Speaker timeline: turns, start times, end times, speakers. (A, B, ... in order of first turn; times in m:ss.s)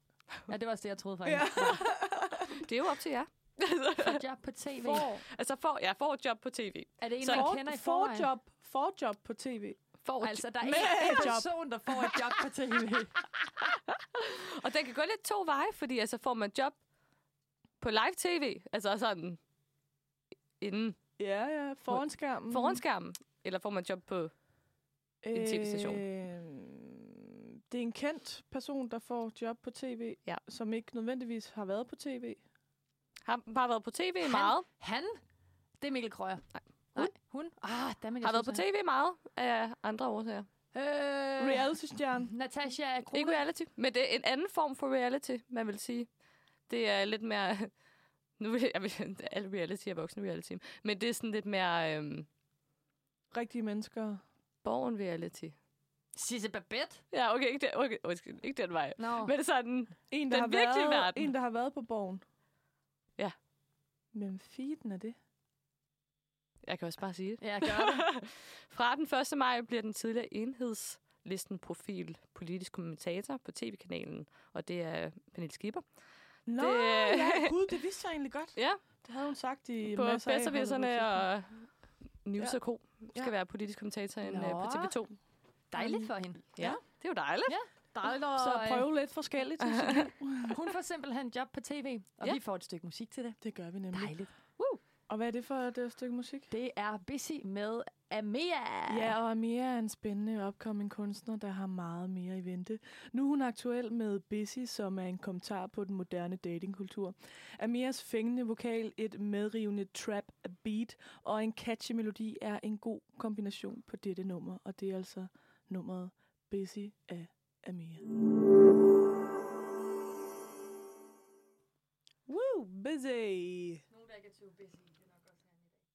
0:00.5-0:01.8 A
0:01.2-0:02.7 B
0:02.5-0:04.2 C
0:04.0-0:05.2 A
0:04.8-0:07.5 C
0:07.0-0:08.3 A
0:07.2-0:09.8 B
0:10.0-0:11.4 C
0:10.2-0:13.1 A
0:10.6-0:11.5 B
0:14.1-0:16.7 C
0:17.8-0:19.4 C
0:20.6-0:21.0 C
0:21.2-0:22.8 B
0:21.9-0:24.3 C
0:25.2-0:32.4 B
0:25.3-0:26.0 C
0:33.2-0:34.6 C
0:34.2-0:35.2 A
0:35.8-0:38.6 A
0:36.5-0:37.1 C
0:38.2-0:40.5 C
0:40.7-0:41.7 A
0:41.4-0:42.3 B
0:42.3-0:43.4 A
0:43.1-0:46.1 C
0:46.7-0:47.7 C
0:48.4-0:52.3 C
0:53.3-0:54.2 B
0:54.6-0:55.5 C
0:56.1-0:57.0 A
0:57.1-1:01.3 C
0:59.0-0:59.3 A
1:00.1-1:02.2 B
1:04.1-1:05.2 B
1:06.6-1:15.8 C
1:07.4-1:08.1 A
1:16.4-1:21.2 B
1:16.6-1:17.5 C
1:18.6-1:18.8 C
1:19.9-1:21.7 C
1:22.2-1:25.1 C
1:24.2-1:24.9 A
1:25.7-1:26.8 A
1:25.7-1:26.1 B
1:26.6-1:27.6 C
1:27.4-1:28.9 A
1:27.9-1:30.6 B
1:29.6-1:30.1 C
1:30.4-1:33.4 A
1:33.4-1:34.1 B
1:33.9-1:34.8 A
1:35.1-1:36.5 B
1:36.5-1:39.1 A
1:38.9-1:58.0 B
2:02.3-2:03.8 B
2:03.9-2:05.6 A